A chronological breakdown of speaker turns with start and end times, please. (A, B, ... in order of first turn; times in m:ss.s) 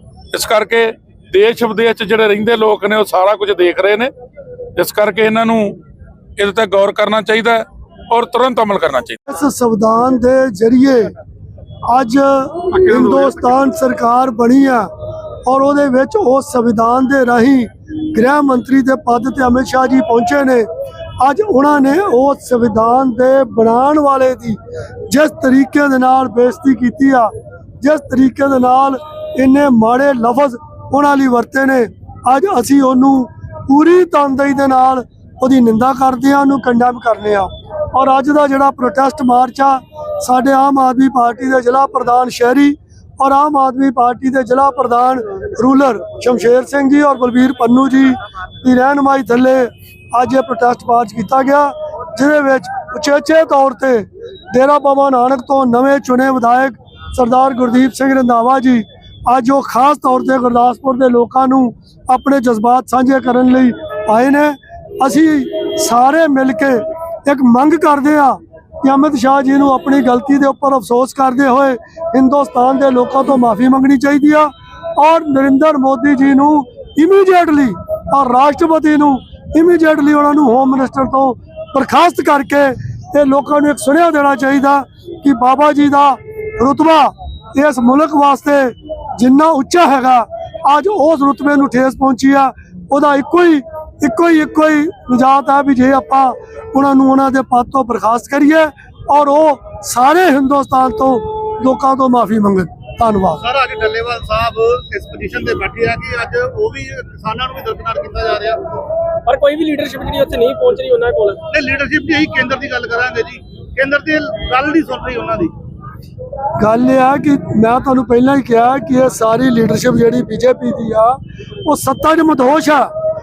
0:00.3-0:04.1 A
0:04.8-0:05.8 A
0:06.4-0:09.2 A
0:09.3-0:11.1 B
0:11.9-0:14.9 B
0:12.8-0:13.4 C
0:15.5-0:20.7 B
0:21.2-1:43.4 B
1:43.4-1:48.6 C
1:49.3-1:51.4 D
1:51.5-1:55.5 C
1:56.6-2:02.9 B